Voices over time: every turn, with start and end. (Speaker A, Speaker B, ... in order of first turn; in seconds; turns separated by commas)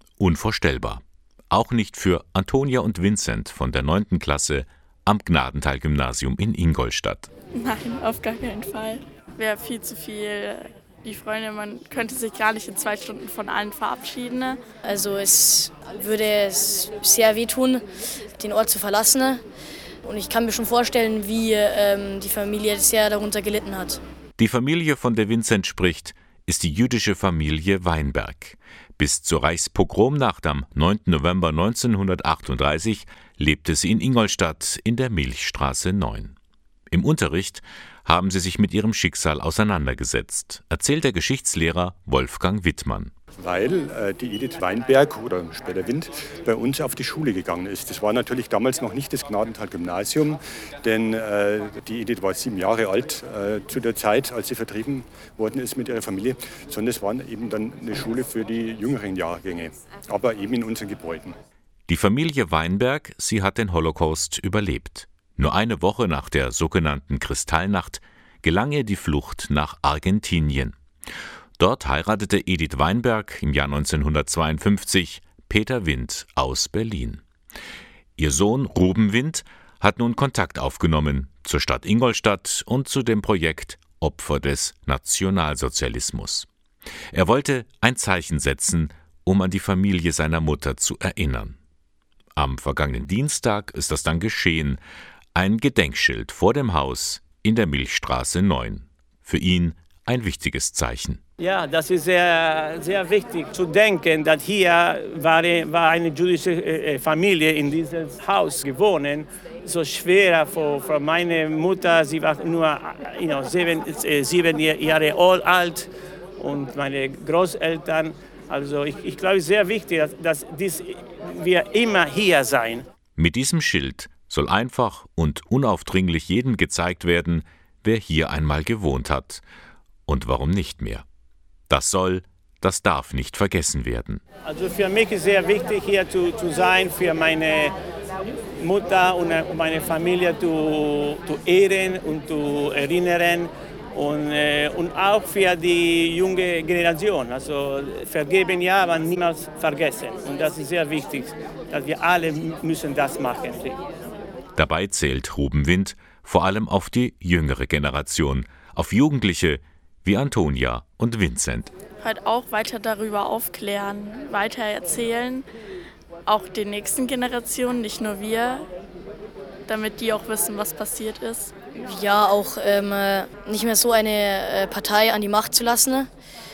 Speaker A: 0.2-7.3, Speaker B: 7.5-14.6, Speaker C: 14.8-17.8, Speaker C: 18.4-19.4, Speaker C: 20.1-24.0, Speaker A: 24.4-36.4, Speaker A: 36.9-43.1, Speaker D: 43.4-61.3, Speaker A: 61.9-70.8, Speaker A: 71.6-77.2, Speaker A: 78.2-86.5, Speaker A: 87.1-91.6, Speaker A: 92.4-94.8, Speaker A: 95.3-101.2, Speaker E: 101.4-122.9, Speaker A: 123.2-129.4, Speaker A: 130.1-131.1, Speaker A: 131.7-134.2, Speaker E: 134.4-137.8, Speaker E: 138.6-153.8, Speaker A: 154.6-161.7, Speaker B: 162.0-165.5, Speaker B: 166.3-168.7, Speaker B: 169.7-171.5, Speaker C: 171.8-176.1